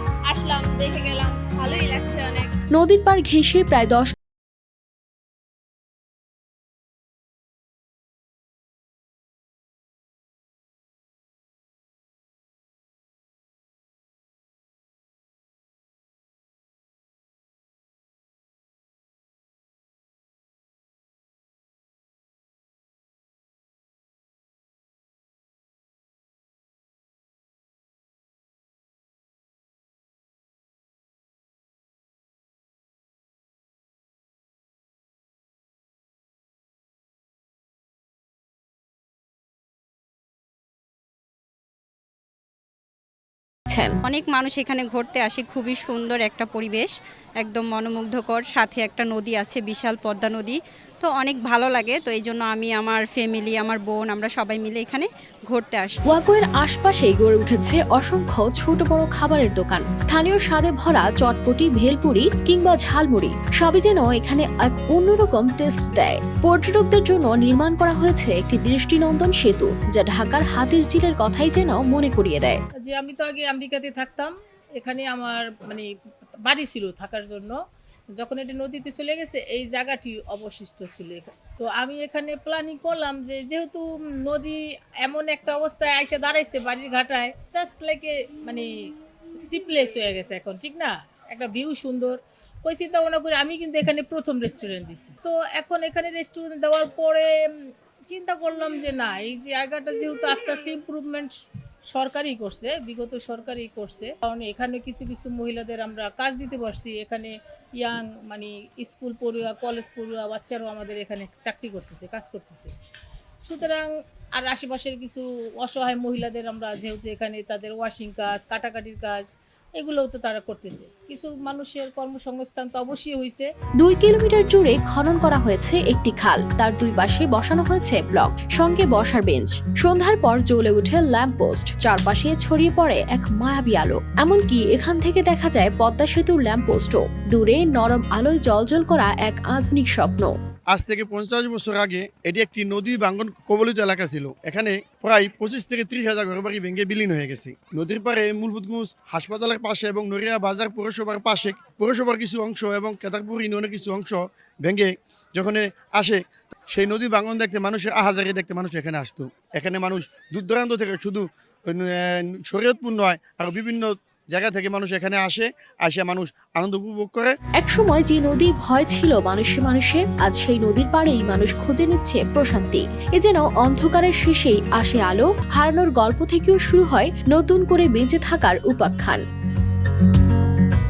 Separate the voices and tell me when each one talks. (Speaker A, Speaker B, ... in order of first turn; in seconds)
Speaker A: 0.3-2.5
Speaker B: 2.7-4.1, 43.7-44.0, 56.0-72.6, 123.8-140.3, 167.6-179.2
Speaker C: 44.0-56.2
Speaker D: 72.8-75.9, 76.4-77.6, 78.2-88.7, 89.4-101.3, 101.9-112.7, 113.4-119.2, 119.8-123.5
Speaker E: 140.7-167.3